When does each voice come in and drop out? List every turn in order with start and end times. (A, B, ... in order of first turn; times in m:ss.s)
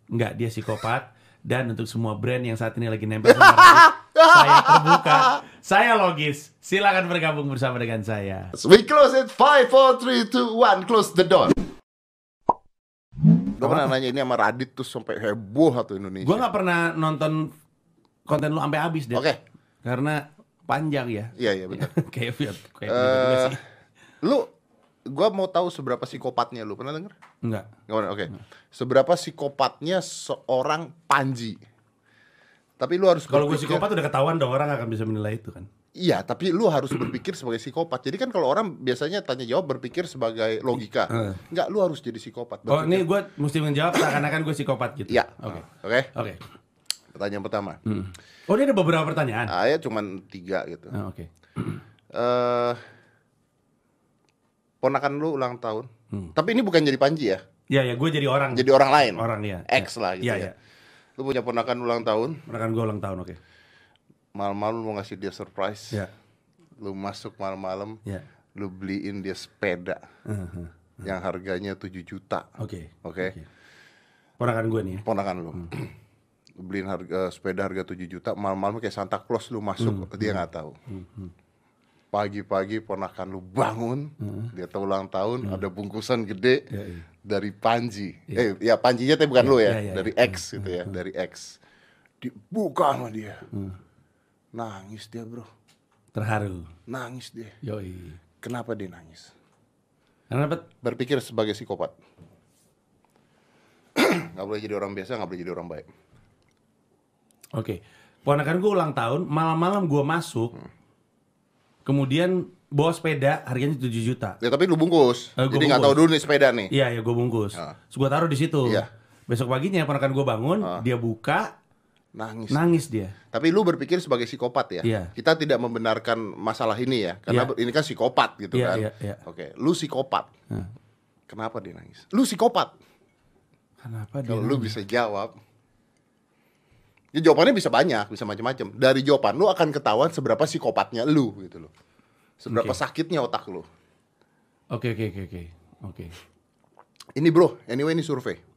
0:00.1-0:08.5 A
0:03.2-0:05.4 B
0:08.5-0:11.6 B
0:13.6-0:16.4 B
0:13.6-0:13.9 A
0:16.2-0:17.5 A
0:18.3-0:19.2 A
0:19.1-0:19.4 B
0:19.8-0:23.6 A
0:21.4-0:21.9 B
0:22.9-0:23.6 B
0:24.2-0:24.5 B
0:25.1-0:27.1 B
0:27.4-0:27.7 A
0:27.9-0:31.6 B
0:32.8-0:33.9 B
0:33.3-0:35.7 A
0:36.0-0:43.0 B
0:41.1-0:41.4 A
0:42.7-0:46.4 A
0:45.1-0:46.1 B
0:47.1-0:47.8 B
0:47.8-0:49.5 A
0:49.5-0:50.9 B
0:50.9-0:51.8 A
0:52.1-0:52.8 B
0:54.8-0:57.4 B
0:57.7-1:00.5 A
0:58.5-1:00.5 B
1:01.2-1:02.4 B
1:02.4-1:03.4 A
1:04.3-1:06.0 B
1:06.8-1:08.0 B
1:08.5-1:10.0 B
1:10.2-1:11.0 A
1:11.0-1:12.4 B
1:12.6-1:13.5 A
1:13.0-1:13.3 B
1:14.4-1:15.0 A
1:15.0-1:15.9 B
1:16.6-1:20.8 B
1:19.8-1:21.3 A
1:22.1-1:26.7 B
1:24.2-1:24.5 A
1:26.7-1:27.0 A
1:27.2-1:31.6 B
1:29.4-1:30.9 A
1:32.2-1:33.4 B
1:33.5-1:33.8 A
1:34.5-1:35.5 B
1:36.1-1:36.7 A
1:36.9-1:37.5 B
1:37.6-1:38.2 A
1:38.4-1:39.3 B
1:40.3-1:40.6 A
1:40.8-1:41.9 B
1:44.0-1:45.8 B
1:47.5-1:50.6 A
1:51.8-1:54.4 A
1:54.4-1:56.7 B
1:55.4-1:56.0 A
1:56.7-2:01.5 A
2:02.1-2:02.8 B
2:02.5-2:03.1 A
2:03.3-2:10.3 B
2:04.8-2:05.1 A
2:07.3-2:07.5 A
2:08.5-2:09.2 A
2:11.3-2:12.7 B
2:13.8-2:14.7 A
2:14.3-2:15.3 B
2:17.1-2:21.7 B
2:22.4-2:23.6 B
2:22.5-2:22.8 A
2:24.7-2:26.2 A
2:27.2-2:28.4 B